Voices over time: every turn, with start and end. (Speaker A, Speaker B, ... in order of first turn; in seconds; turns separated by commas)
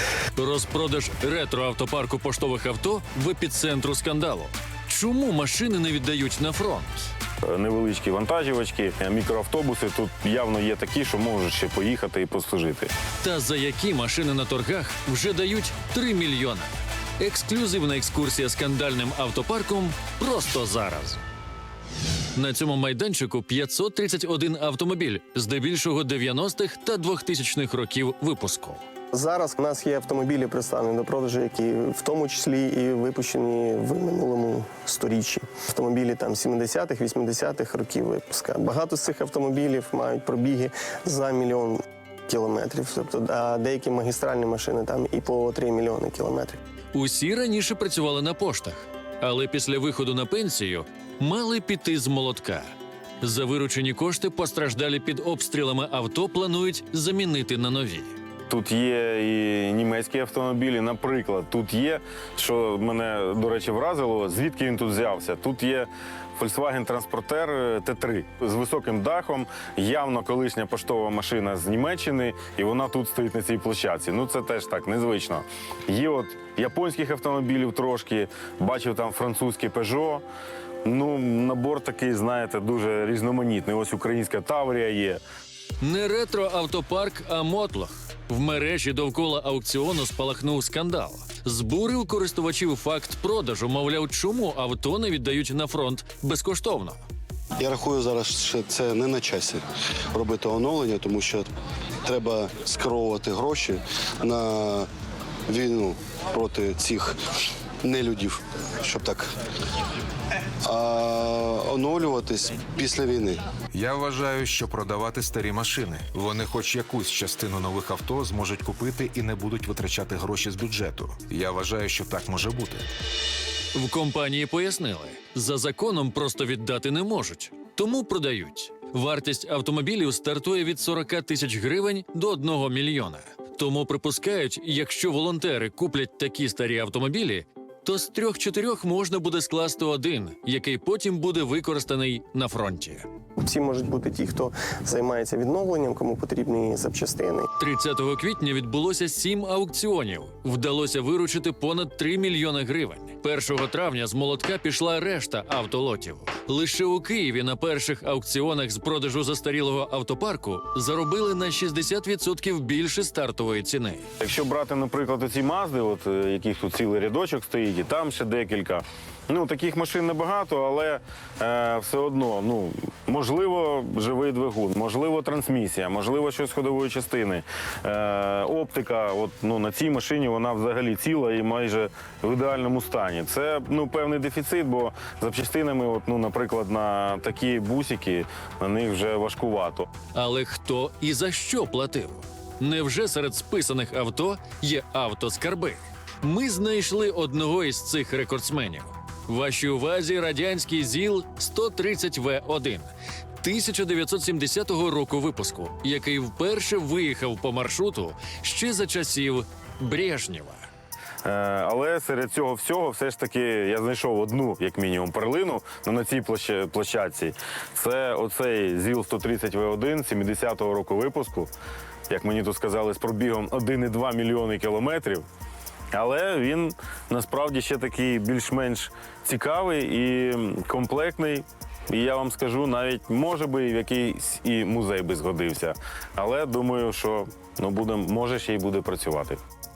Speaker A: 0.3-7.1, Speaker B: 7.4-12.9, Speaker A: 13.2-21.2, Speaker A: 22.3-28.8, Speaker C: 29.1-46.6, Speaker A: 46.9-52.7, Speaker A: 53.2-58.1, Speaker B: 58.5-80.2, Speaker B: 80.8-85.2, Speaker A: 85.8-97.0, Speaker D: 97.6-101.5, Speaker D: 102.0-104.9, Speaker D: 105.5-107.2, Speaker D: 107.8-109.3, Speaker D: 110.6-113.4, Speaker E: 113.7-122.9, Speaker A: 123.7-143.1, Speaker C: 143.4-147.5, Speaker A: 147.6-164.1, Speaker B: 164.2-189.9, Speaker A: 190.1-210.7, Speaker B: 211.2-221.5, Speaker B: 222.1-225.2, Speaker B: 225.9-239.4